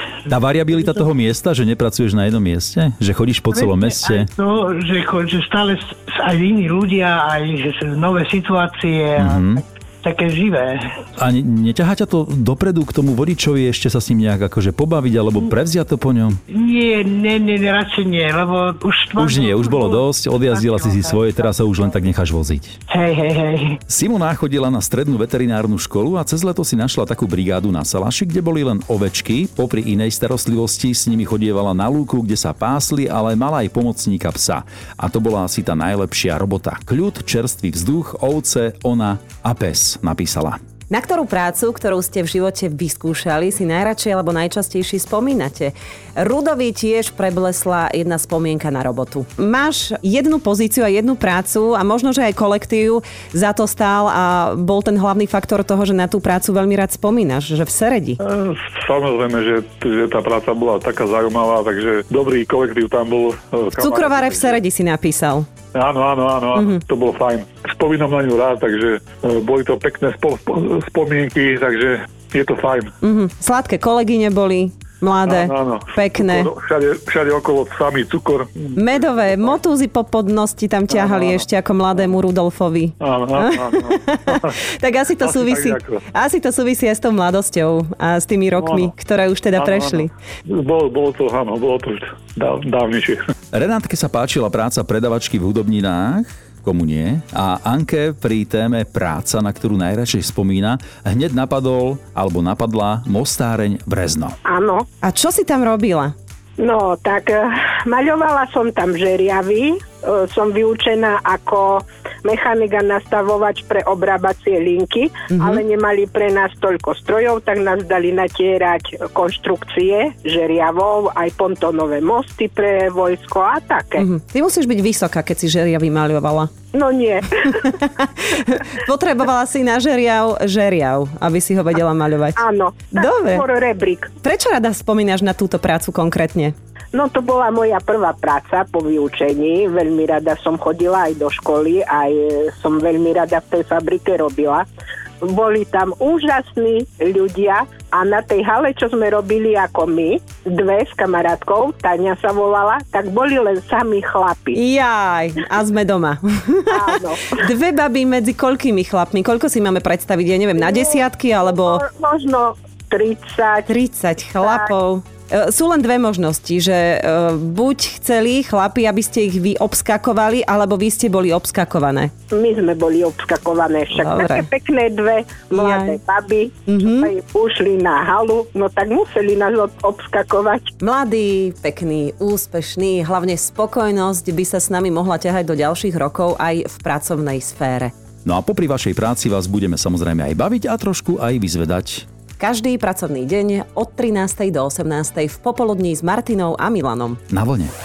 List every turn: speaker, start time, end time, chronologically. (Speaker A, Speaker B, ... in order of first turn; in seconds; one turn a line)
Speaker A: 0.3-4.3
Speaker B: 3.5-10.8
Speaker A: 9.2-9.6
Speaker A: 11.2-16.4
Speaker B: 16.5-21.1
Speaker A: 19.2-22.8
Speaker B: 22.9-23.8
Speaker A: 23.9-40.6
Speaker C: 40.9-58.2
Speaker D: 58.2-64.6
Speaker C: 63.8-65.5
Speaker D: 65.7-72.9
Speaker C: 66.5-66.8
Speaker C: 73.0-76.5
Speaker D: 75.2-79.3
Speaker C: 78.8-90.1
Speaker D: 81.0-81.4
Speaker D: 83.0-84.6
Speaker D: 85.2-86.0
Speaker D: 88.6-88.9
Speaker D: 89.6-93.2
Speaker A: 93.5-104.3
Speaker E: 104.5-104.8
Speaker C: 105.0-106.1
Speaker E: 106.6-124.0
Speaker C: 115.3-115.6
Speaker C: 124.0-126.5
Speaker E: 126.7-127.7
Speaker C: 127.5-133.4
Speaker E: 132.4-134.1
Speaker C: 134.2-136.5
Speaker E: 136.9-144.7
Speaker E: 145.2-154.6
Speaker C: 154.5-161.8
Speaker E: 156.7-157.4
Speaker E: 160.6-163.7
Speaker C: 163.7-172.1
Speaker E: 164.4-164.7
Speaker E: 172.3-180.7
Speaker C: 173.9-174.5
Speaker C: 175.5-176.0
Speaker C: 176.7-177.1
Speaker C: 180.8-187.9
Speaker A: 188.2-192.1
Speaker C: 192.4-197.2
Speaker A: 197.3-197.7